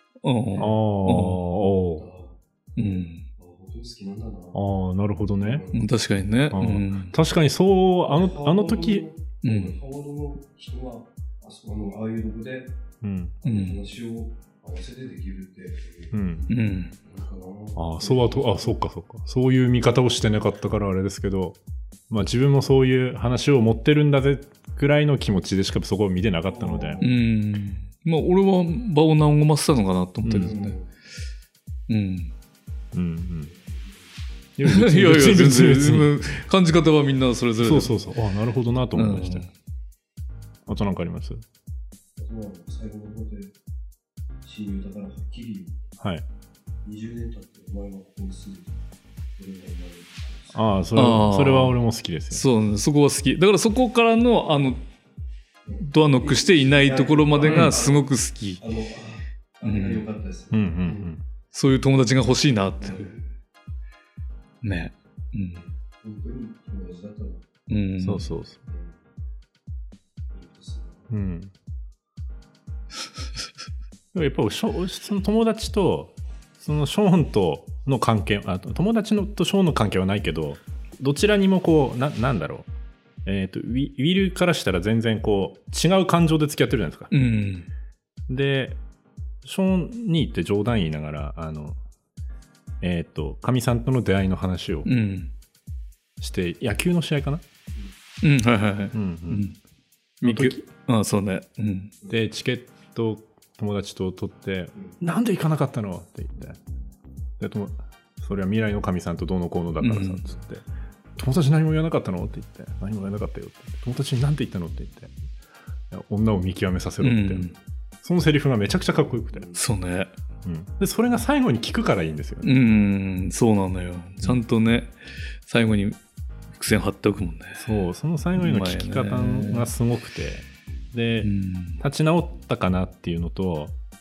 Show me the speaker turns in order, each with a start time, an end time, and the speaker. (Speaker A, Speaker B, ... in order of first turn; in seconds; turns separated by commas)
Speaker A: 0.2-1.4, Speaker B: 0.6-2.1, Speaker C: 2.0-4.6, Speaker A: 2.8-3.3, Speaker B: 4.5-5.7, Speaker C: 5.4-5.9, Speaker A: 5.7-7.1, Speaker B: 6.5-9.0, Speaker C: 8.1-12.7, Speaker A: 9.4-9.8, Speaker B: 13.0-13.4, Speaker C: 13.4-18.8, Speaker A: 13.4-13.8, Speaker B: 16.1-16.5, Speaker A: 16.5-16.9, Speaker B: 17.8-21.6, Speaker B: 22.1-27.0, Speaker C: 26.5-27.2, Speaker A: 27.0-30.8, Speaker B: 30.2-30.6, Speaker C: 30.3-30.9, Speaker A: 31.9-32.3, Speaker B: 32.9-33.5, Speaker C: 33.5-34.1, Speaker B: 34.6-36.1, Speaker A: 34.6-38.0, Speaker B: 37.6-39.5, Speaker A: 39.0-39.5, Speaker B: 40.7-41.4, Speaker C: 42.2-43.5, Speaker C: 44.4-45.9, Speaker B: 46.0-46.2, Speaker C: 46.8-48.8, Speaker C: 49.4-50.7, Speaker B: 50.5-52.5, Speaker A: 51.0-51.8, Speaker A: 52.3-54.8, Speaker C: 55.6-61.1, Speaker A: 55.8-58.6, Speaker B: 57.5-57.8, Speaker A: 59.6-60.0, Speaker B: 60.5-61.2, Speaker A: 61.5-63.1, Speaker C: 62.8-63.3, Speaker A: 64.6-65.7, Speaker C: 66.0-67.5, Speaker A: 67.7-68.3, Speaker B: 68.0-68.6, Speaker C: 68.7-69.0, Speaker C: 70.3-71.1, Speaker B: 71.1-71.5, Speaker B: 74.1-82.7, Speaker B: 83.2-87.1, Speaker A: 87.1-87.7, Speaker B: 88.3-88.8, Speaker B: 89.4-91.8, Speaker B: 92.8-94.9, Speaker A: 94.8-95.3, Speaker B: 96.2-97.4, Speaker A: 98.2-99.6, Speaker B: 98.9-99.5, Speaker A: 100.2-101.9, Speaker B: 100.2-100.6, Speaker B: 102.1-106.6, Speaker B: 107.4-110.6, Speaker A: 109.8-110.3, Speaker B: 111.2-115.1, Speaker B: 115.9-117.5, Speaker A: 117.0-117.5, Speaker B: 118.0-119.5, Speaker A: 119.5-120.1, Speaker B: 120.4-122.5, Speaker A: 122.4-124.9, Speaker A: 125.5-126.0, Speaker A: 126.5-127.6, Speaker B: 127.6-133.8, Speaker A: 128.4-129.7, Speaker A: 131.2-131.8